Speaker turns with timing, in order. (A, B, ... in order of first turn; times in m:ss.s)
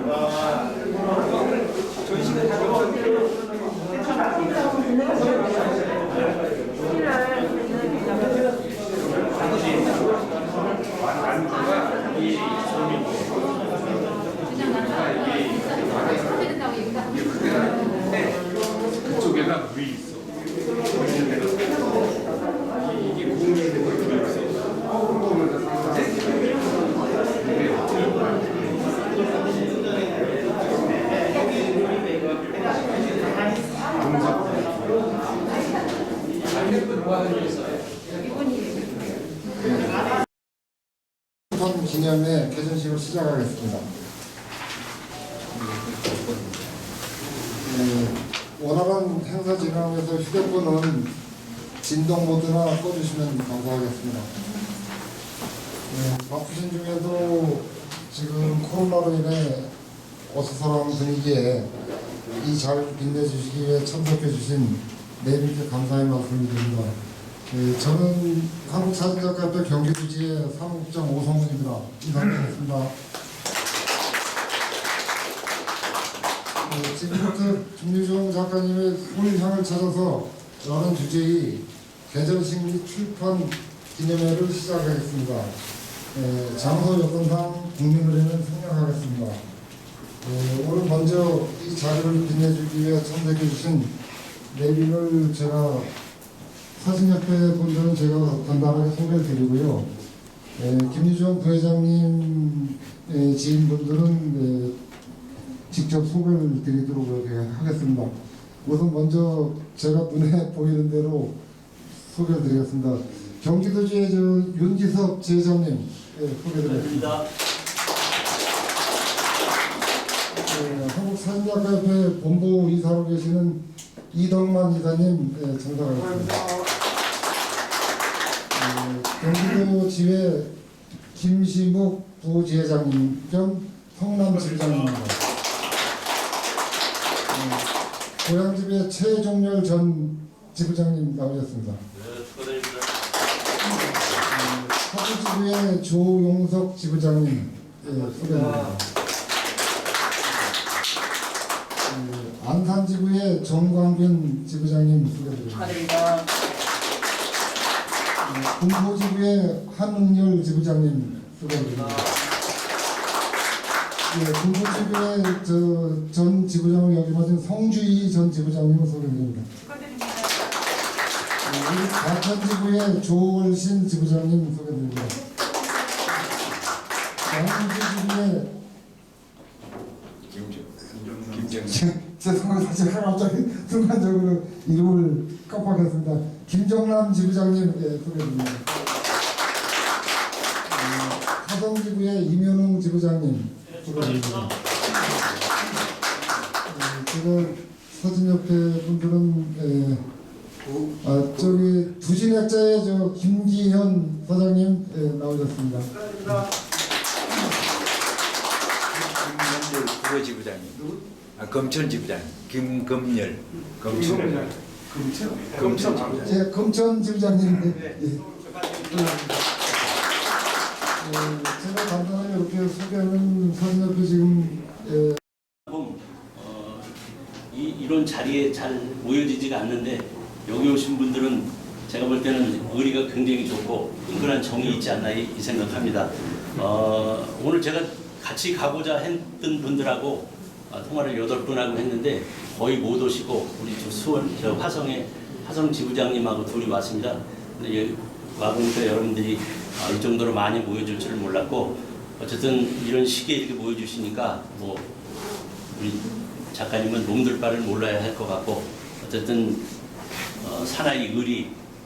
0:41.5-0:43.8 A
0:47.6-0:51.1 A
0:51.8-0:54.3 A
0:55.9-0:59.7 A
1:00.3-1:01.7 A
1:02.4-1:06.9 A
1:07.5-1:12.9 A
1:16.6-1:25.5 A
1:26.1-1:29.4 A
1:30.2-1:34.0 A
1:34.5-1:35.9 A
1:36.8-1:39.9 A
1:40.6-1:44.7 A
1:45.7-1:48.1 A
1:48.6-1:51.4 A
1:52.0-1:57.2 A
1:56.6-1:57.3 B
2:00.4-2:06.5 A
2:08.5-2:10.5 A
2:11.1-2:15.2 A
2:17.3-2:17.7 A
2:18.2-2:21.8 A
2:22.0-2:22.9 B
2:24.2-2:28.8 A
2:31.8-2:36.0 A
2:38.2-2:42.1 A
2:44.1-2:49.4 A
2:51.4-2:55.2 A
2:57.2-2:58.5 A
3:00.3-3:01.8 C
3:01.6-3:08.6 A
3:10.7-3:14.5 A
3:16.7-3:20.0 A
3:21.0-3:26.4 A
3:28.9-3:36.3 C
3:36.2-3:38.2 A
3:41.0-3:45.2 A
3:45.7-3:46.9 B
3:47.5-4:14.9 B
4:15.7-4:19.6 B
4:20.4-4:21.5 B